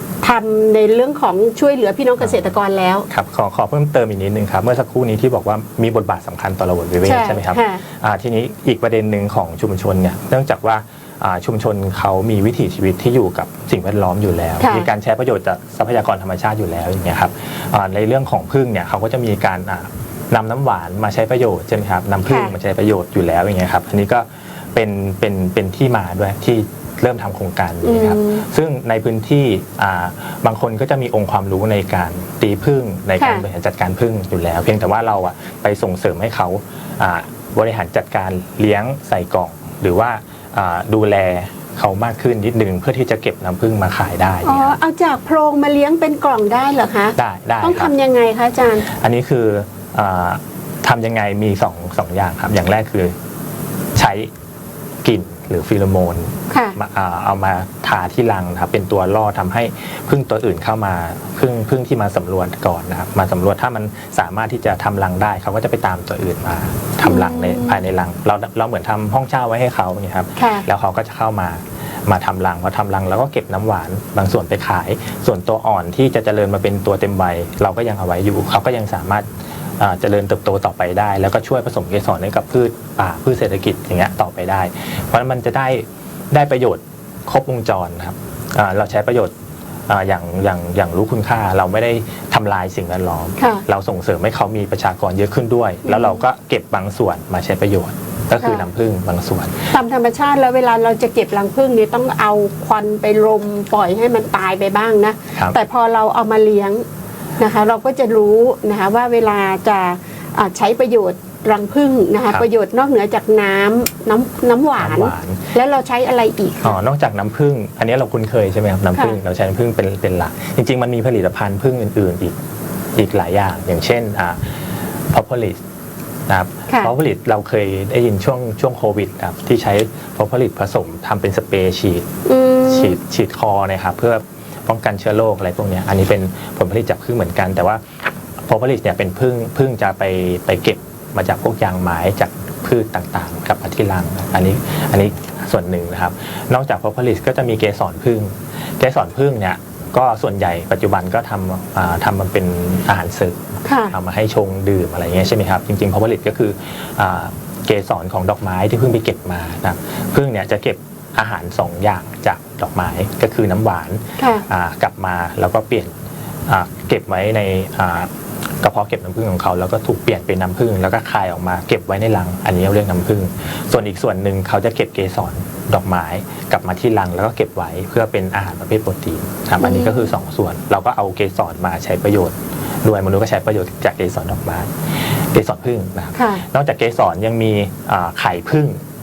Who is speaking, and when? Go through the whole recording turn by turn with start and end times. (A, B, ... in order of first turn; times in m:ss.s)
0:00.2-0:03.1 A
0:03.1-0:44.7 B
0:07.0-0:07.8 A
0:14.6-0:14.9 A
0:22.2-0:22.5 A
0:27.8-0:28.4 A
0:33.2-0:33.4 A
0:44.4-0:48.9 A
0:47.2-0:47.9 B
0:48.9-0:53.1 B
0:54.0-0:54.3 B
0:55.0-1:19.2 B
0:56.5-0:56.8 A
1:07.0-1:07.8 A
1:10.4-1:10.7 A
1:19.8-1:29.3 B
1:29.9-1:39.7 B
1:33.4-1:33.6 A
1:35.8-1:36.2 A
1:38.4-1:38.6 A
1:39.7-1:46.8 A
1:47.4-1:56.8 A
1:54.8-1:55.4 B
1:56.6-2:02.4 B
2:02.9-2:04.4 B
2:05.1-2:05.6 B
2:06.3-2:12.0 B
2:06.7-2:06.9 A
2:12.2-2:13.0 A
2:12.6-2:17.8 B
2:18.4-2:33.4 B
2:33.6-2:33.9 A
2:33.9-2:45.9 B
2:44.2-2:44.4 A
2:46.5-2:48.1 B
2:48.6-3:08.8 B
2:59.6-3:00.1 A
3:06.1-3:06.4 A